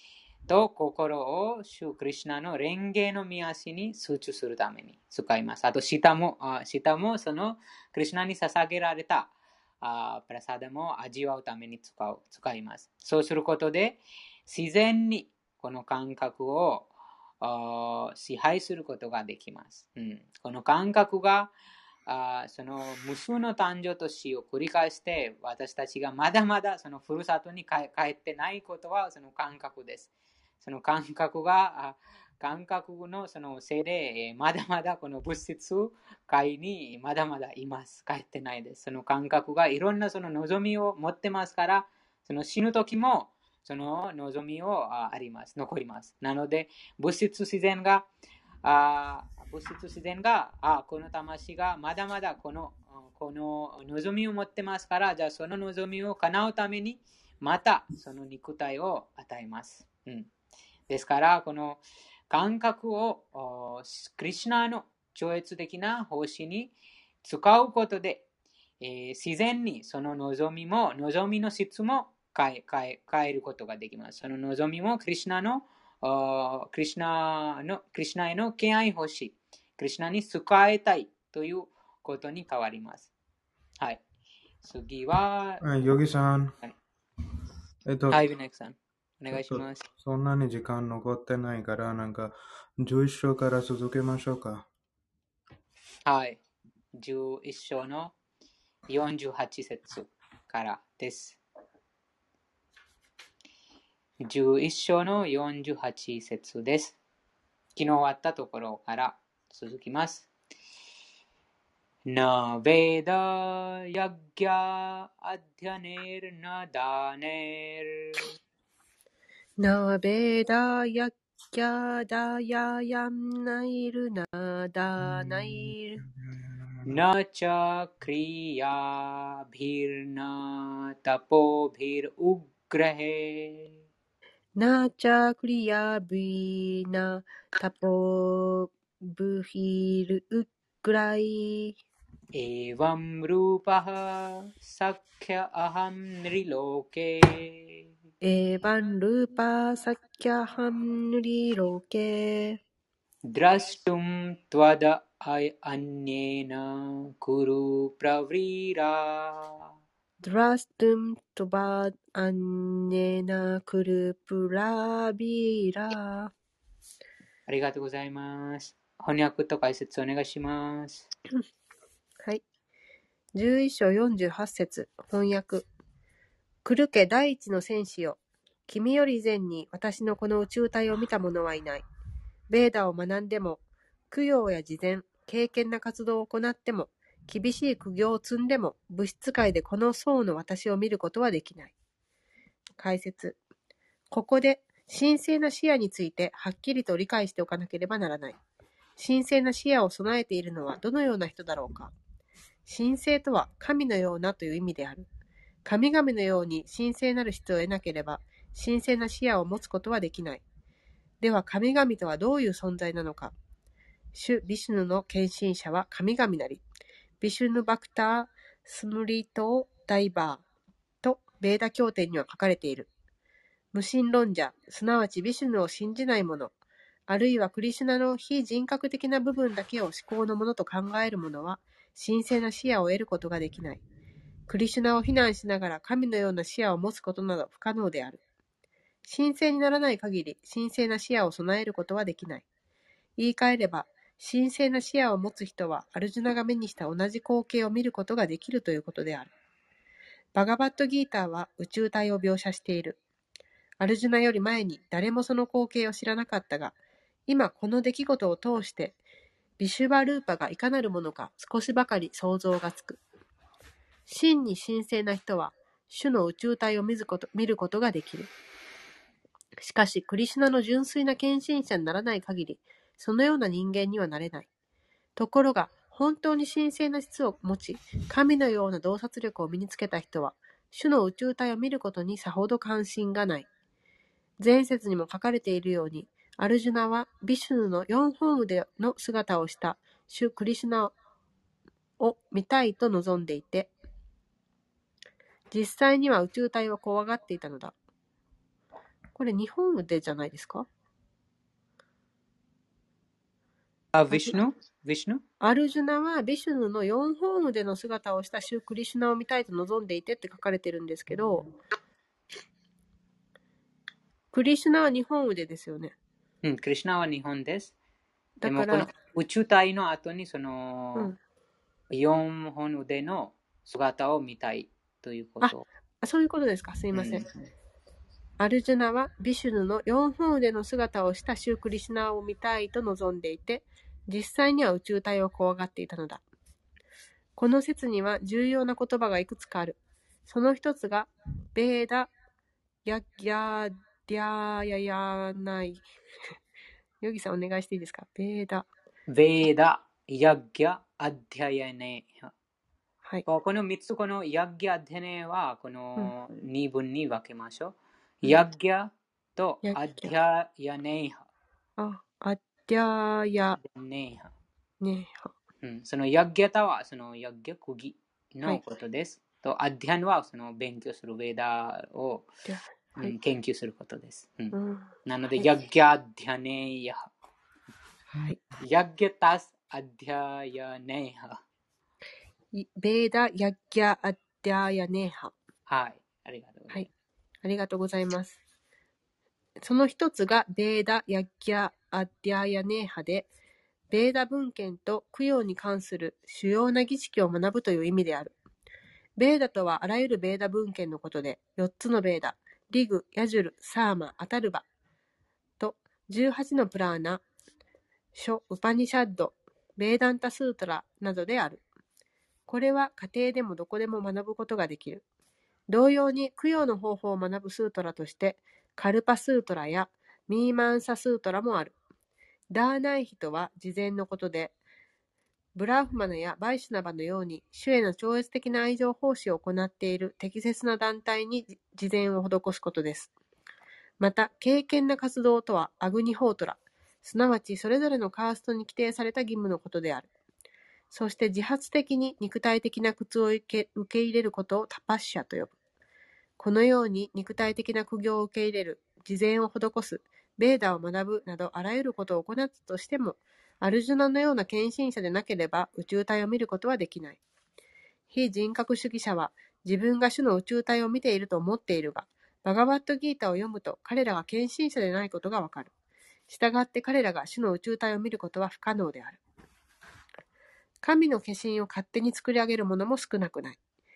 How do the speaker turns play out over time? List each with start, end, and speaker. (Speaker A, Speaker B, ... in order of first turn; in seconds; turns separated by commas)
Speaker A: 0.5-16.9, Speaker A: 17.4-21.5, Speaker A: 22.1-30.1, Speaker A: 30.6-48.1, Speaker A: 48.6-60.3, Speaker A: 60.9-68.2, Speaker A: 68.8-83.1, Speaker A: 84.6-85.6, Speaker B: 85.6-86.5, Speaker B: 87.9-88.2, Speaker A: 88.1-89.9, Speaker B: 89.3-92.3, Speaker B: 92.8-94.6, Speaker A: 96.1-96.4, Speaker A: 97.0-98.1, Speaker A: 98.9-101.4, Speaker A: 104.2-107.0, Speaker A: 107.8-110.3, Speaker A: 112.1-118.3, Speaker C: 119.6-126.0, Speaker B: 126.4-127.0, Speaker A: 126.8-133.7, Speaker C: 134.6-141.8, Speaker A: 142.3-147.8, Speaker C: 148.2-152.6, Speaker A: 153.3-159.6, Speaker C: 160.2-166.3, Speaker A: 167.5-171.1, Speaker C: 173.3-175.7, Speaker C: 176.7-181.9, Speaker C: 182.5-183.6, Speaker C: 184.1-191.7, Speaker C: 192.8-193.4, Speaker C: 194.1-198.4, Speaker C: 199.0-201.9, Speaker C: 202.7-205.1, Speaker C: 205.7-210.4, Speaker C: 211.2-213.3, Speaker C: 214.1-216.6, Speaker C: 217.2-220.4, Speaker C: 221.0-222.9, Speaker C: 223.7-226.5, Speaker C: 227.1-233.8, Speaker C: 234.5-238.2, Speaker C: 239.1-242.4, Speaker C: 243.2-249.3, Speaker C: 250.3-253.0, Speaker C: 253.8-256.8, Speaker C: 257.3-259.0, Speaker C: 259.6-263.0, Speaker C: 264.1-268.3, Speaker C: 269.6-274.5, Speaker C: 275.2-283.5, Speaker C: 284.4-290.9, Speaker C: 292.0-293.7, Speaker C: 295.5-297.8, Speaker C: 299.1-300.7, Speaker A: 303.9-305.2, Speaker C: 305.4-311.5, Speaker C: 314.3-315.9, Speaker A: 316.4-317.7, Speaker C: 318.4-318.9, Speaker A: 318.4-321.1, Speaker A: 321.9-325.6, Speaker C: 325.4-327.2, Speaker A: 326.9-327.3, Speaker C: 328.4-336.2, Speaker C: 337.4-342.1, Speaker C: 342.9-345.9, Speaker C: 347.0-348.7, Speaker A: 349.1-352.3, Speaker A: 353.3-361.3, Speaker C: 359.6-360.1, Speaker C: 361.8-363.6, Speaker A: 363.7-364.3, Speaker C: 364.8-365.3, Speaker A: 365.6-372.3, Speaker C: 372.5-373.1, Speaker A: 373.0-374.5, Speaker C: 374.5-375.5, Speaker A: 375.1-377.1, Speaker A: 378.6-381.4, Speaker C: 382.5-385.3, Speaker A: 385.7-386.9, Speaker C: 387.4-388.4, Speaker C: 389.6-393.3, Speaker C: 393.9-398.3, Speaker C: 399.2-404.6, Speaker C: 405.6-407.2, Speaker C: 408.1-411.6, Speaker C: 412.5-415.0, Speaker C: 415.7-421.8, Speaker C: 422.5-424.6, Speaker C: 425.6-433.1, Speaker C: 434.0-440.1, Speaker C: 440.9-445.5, Speaker C: 446.4-457.2, Speaker C: 458.1-465.7, Speaker C: 466.3-469.2, Speaker C: 470.8-473.6